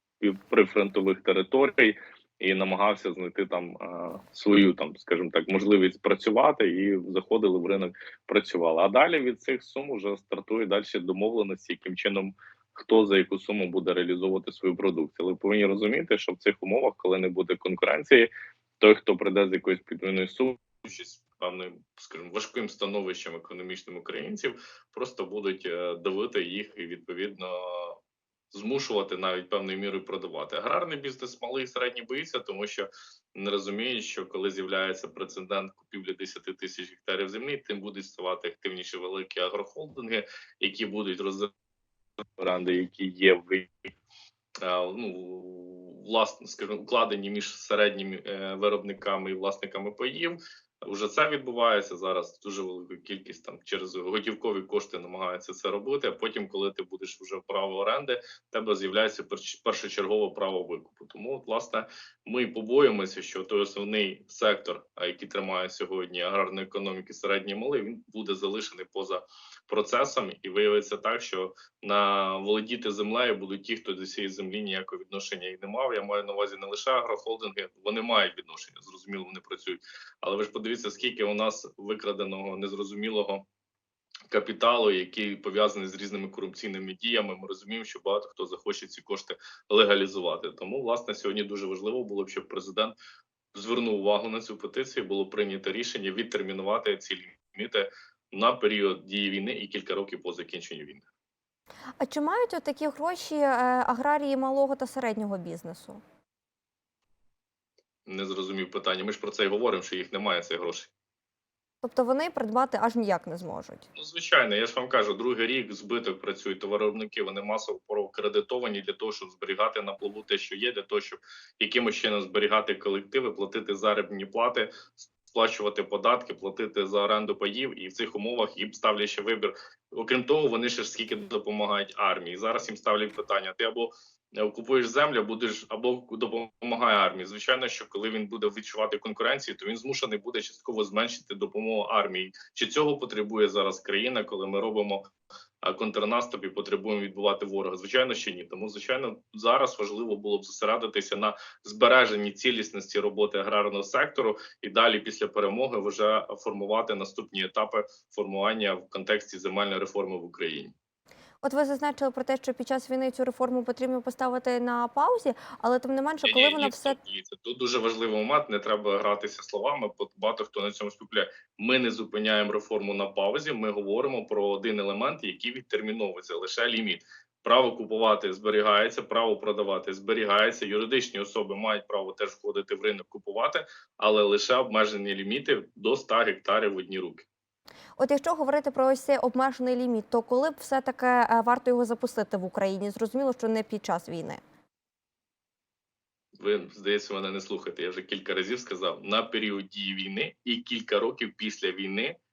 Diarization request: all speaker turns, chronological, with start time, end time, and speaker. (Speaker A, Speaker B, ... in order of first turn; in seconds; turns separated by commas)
Speaker A: 0.2-28.0, Speaker A: 28.5-41.5, Speaker A: 42.4-43.9, Speaker A: 44.6-83.4, Speaker A: 84.3-93.0, Speaker A: 93.5-101.1, Speaker B: 102.0-106.0, Speaker A: 108.1-110.9, Speaker B: 111.8-113.9, Speaker A: 114.0-145.1, Speaker A: 145.6-160.7, Speaker B: 161.4-167.0, Speaker A: 166.2-187.3, Speaker B: 188.0-194.4, Speaker A: 196.4-202.2